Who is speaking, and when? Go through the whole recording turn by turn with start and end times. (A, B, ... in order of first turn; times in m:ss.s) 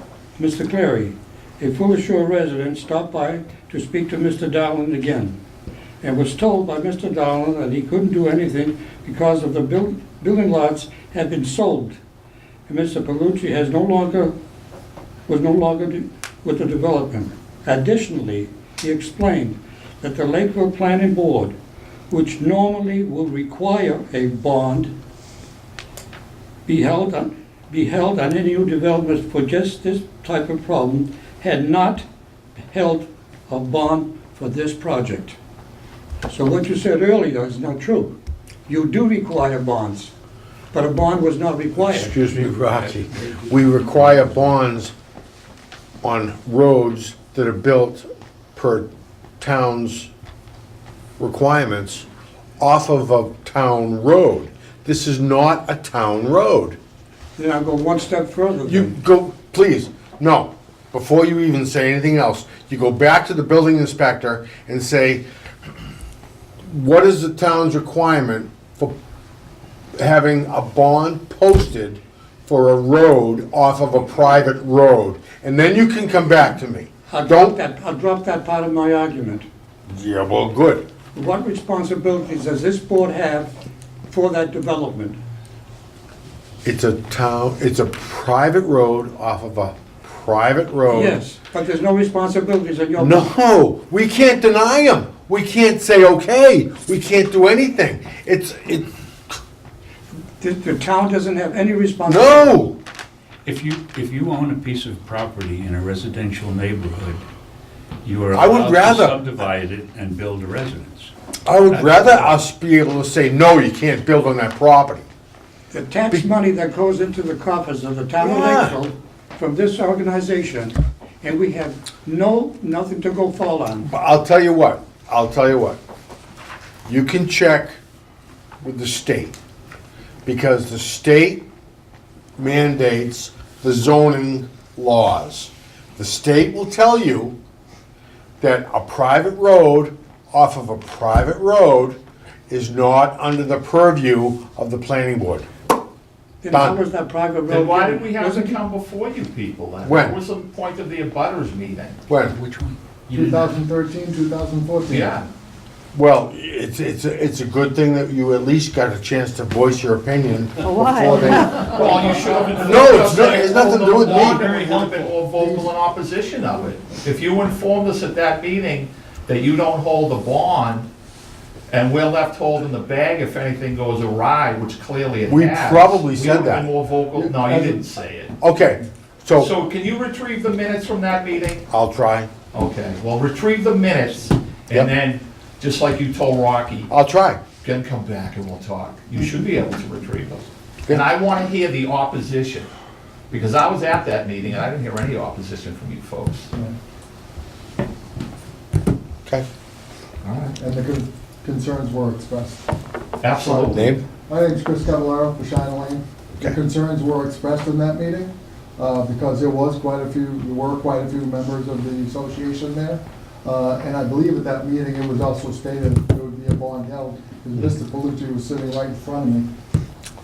0:00.4-0:05.4 A
0:06.0-0:12.0 A
0:12.7-0:14.4 A
0:15.3-0:21.5 A
0:22.1-0:24.9 A
0:26.7-0:32.0 A
0:32.6-0:35.4 A
0:36.3-0:38.2 A
0:38.7-0:40.1 A
0:40.7-0:42.2 A
0:41.8-0:44.9 B
0:43.9-0:44.4 C
0:46.0-0:48.9 B
0:49.4-0:50.1 B
0:51.2-0:52.1 B
0:52.6-0:56.8 B
0:57.4-0:58.9 A
0:58.6-1:05.2 B
1:06.6-1:08.9 B
1:10.0-1:17.6 B
1:17.1-1:19.5 A
1:19.9-1:20.8 B
1:21.2-1:23.5 A
1:24.1-1:25.2 A
1:26.6-1:31.2 B
1:30.9-1:33.3 A
1:33.0-1:38.9 B
1:40.4-1:42.6 A
1:42.1-1:42.8 B
1:43.4-1:47.2 C
1:48.0-1:51.1 C
1:48.3-1:49.2 B
1:51.5-1:55.1 B
1:51.7-1:52.4 C
1:55.7-2:03.9 A
1:58.2-1:58.8 B
2:03.8-2:05.8 B
2:06.9-2:07.8 B
2:08.6-2:09.4 B
2:10.2-2:11.5 B
2:12.4-2:17.4 B
2:18.4-2:25.5 B
2:26.4-2:28.6 A
2:26.5-2:26.8 B
2:27.5-2:32.0 D
2:29.8-2:30.2 B
2:32.1-2:32.3 B
2:32.3-2:33.5 C
2:33.1-2:35.2 E
2:34.9-2:35.3 D
2:35.9-2:41.9 B
2:40.8-2:42.9 E
2:41.5-2:50.9 D
2:42.6-2:44.5 B
2:44.0-2:44.8 C
2:45.3-2:45.7 E
2:51.7-2:58.4 D
2:55.3-2:56.7 B
2:57.2-2:57.8 E
2:58.4-2:59.5 B
2:59.3-3:01.6 D
3:01.7-3:02.3 B
3:02.5-3:06.9 D
3:06.9-3:07.4 B
3:07.6-3:12.7 D
3:13.3-3:16.5 D
3:20.2-3:20.6 D
3:20.6-3:22.6 E
3:23.2-3:24.0 D
3:23.4-3:39.5 E
3:23.7-3:24.0 B